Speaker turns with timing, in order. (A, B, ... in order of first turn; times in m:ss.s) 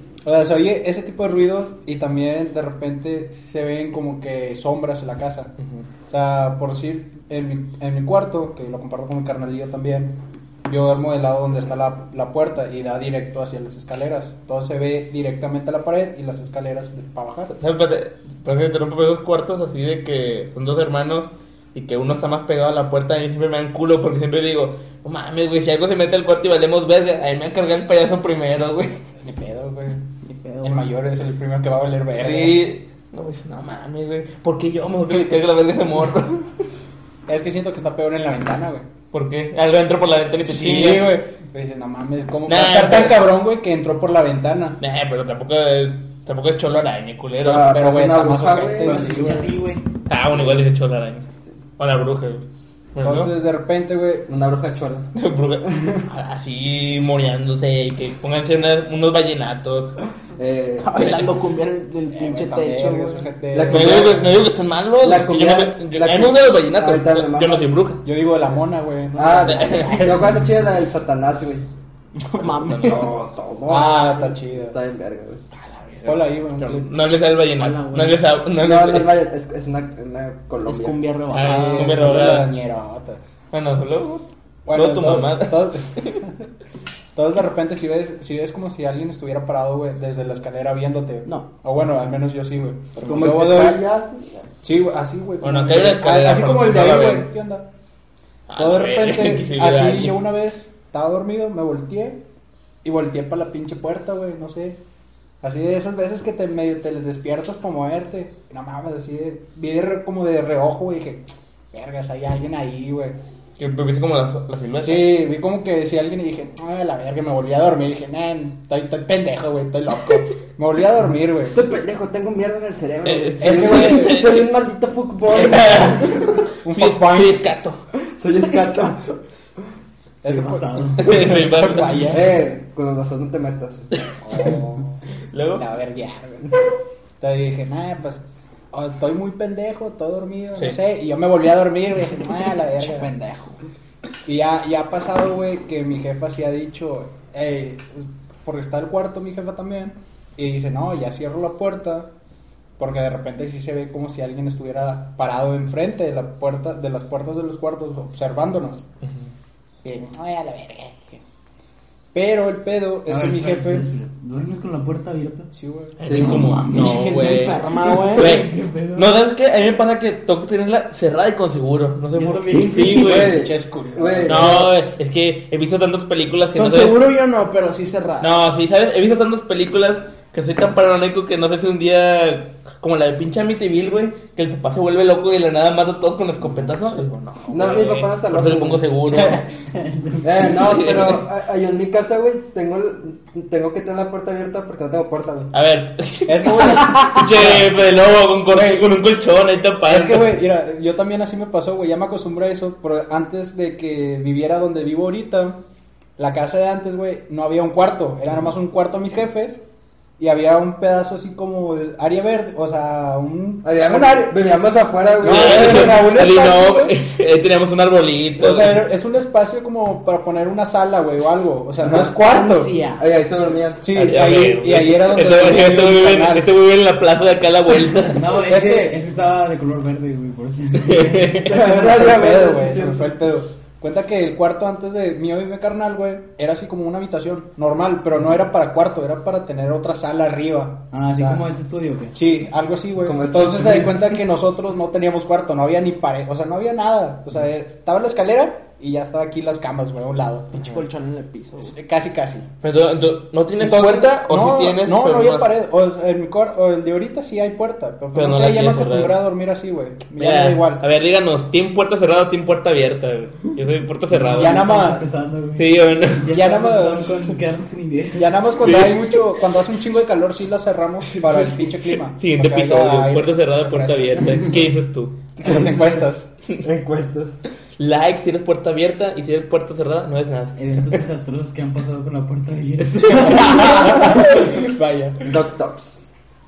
0:00.2-0:05.5 A
0:05.6-0:05.8 B
0:06.1-0:17.5 A
0:17.5-0:29.0 B
0:29.2-0:30.0 A
0:30.3-0:30.9 C
0:30.6-0:32.6 A
0:32.2-0:36.5 B
0:37.3-0:38.9 A
0:39.1-0:41.2 B
0:40.5-0:44.8 A
0:42.5-0:43.3 B
0:44.8-0:47.8 B
0:47.4-0:49.3 D
0:47.7-0:49.5 A
0:48.8-0:49.9 E
0:50.1-0:51.3 B
0:51.8-0:53.3 B
0:53.0-0:54.3 A
0:54.3-0:55.1 D
0:55.2-1:00.0 B
0:55.6-0:56.0 D
1:00.4-1:01.1 D
1:00.8-1:03.2 C
1:02.1-1:04.1 A
1:03.5-1:04.4 D
1:03.7-1:08.0 B
1:05.0-1:07.7 D
1:08.0-1:10.3 A
1:09.2-1:11.6 D
1:09.4-1:10.2 B
1:12.2-1:13.1 C
1:12.4-1:13.0 B
1:12.7-1:15.4 D
1:13.7-1:14.8 A
1:15.6-1:19.2 B
1:16.1-1:16.9 A
1:17.6-1:18.2 C
1:18.6-1:21.0 D
1:20.6-1:22.1 C
1:21.3-1:22.5 B
1:21.3-1:23.2 A
1:23.5-1:26.2 B
1:24.7-1:26.3 A
1:27.2-1:33.8 A
1:33.0-1:33.5 C
1:33.0-1:34.2 D
1:34.6-1:37.7 A
1:35.4-1:37.3 B
1:38.5-1:40.2 B
1:38.6-1:42.2 A
1:42.8-1:44.8 A
1:45.4-1:53.2 A
1:53.6-1:55.2 B
1:54.8-2:01.6 A
2:01.5-2:06.4 D
2:03.0-2:04.5 B
2:03.4-2:04.3 A
2:05.3-2:07.8 B
2:06.6-2:07.3 A
2:08.2-2:09.1 D
2:08.6-2:08.9 C
2:10.2-2:11.3 E
2:10.2-2:12.3 A
2:11.0-2:12.2 B
2:12.1-2:13.9 D
2:14.2-2:15.0 A
2:15.3-2:15.6 B
2:15.6-2:16.5 A
2:17.2-2:23.1 A
2:22.8-2:23.6 C
2:24.3-2:32.1 A
2:32.8-2:38.9 A
2:39.8-2:41.2 A
2:42.1-2:43.9 A
2:43.1-2:45.5 E
2:45.5-2:46.0 A
2:46.0-2:53.4 B
2:46.0-2:46.4 D
2:46.1-2:47.3 E
2:46.8-2:48.6 C
2:48.2-2:48.8 E
2:52.1-2:53.3 E
2:52.9-2:54.7 D
2:53.1-2:54.6 A
2:54.3-2:57.0 B
2:56.6-2:58.3 C
2:58.2-3:09.4 B
3:06.4-3:06.8 E
3:07.5-3:09.4 D
3:09.7-3:10.5 E
3:10.2-3:15.5 D
3:10.5-3:11.2 B
3:15.5-3:20.4 B
3:16.3-3:17.7 A
3:18.5-3:18.9 A
3:19.9-3:25.6 A
3:26.2-3:29.6 A
3:30.2-3:34.3 A
3:33.6-3:36.1 D
3:35.2-3:37.0 A
3:35.2-3:38.8 B
3:38.4-3:42.7 A
3:41.9-3:43.0 C
3:43.0-3:43.8 D
3:43.8-3:46.5 A
3:43.9-3:48.2 B
3:48.1-3:51.5 E
3:48.4-3:49.0 A
3:50.8-3:51.6 B
3:51.5-3:53.1 D
3:51.5-4:01.4 A
4:00.9-4:02.2 E
4:02.1-4:10.5 A
4:03.0-4:04.2 D
4:10.5-4:11.8 C
4:11.6-4:12.5 A
4:12.6-4:15.5 B
4:13.6-4:20.8 A
4:18.1-4:19.2 B
4:20.2-4:24.7 B
4:24.1-4:28.6 E
4:24.3-4:25.1 A
4:25.6-4:26.3 B
4:26.3-4:27.3 A
4:28.2-4:34.6 A
4:28.6-4:29.2 B
4:31.1-4:35.2 B
4:35.4-4:36.3 A
4:35.4-4:36.0 D
4:36.6-4:37.4 D
4:37.8-4:41.0 B
4:40.6-4:43.6 E
4:42.8-4:44.5 B
4:43.1-4:45.3 A
4:45.3-4:46.1 D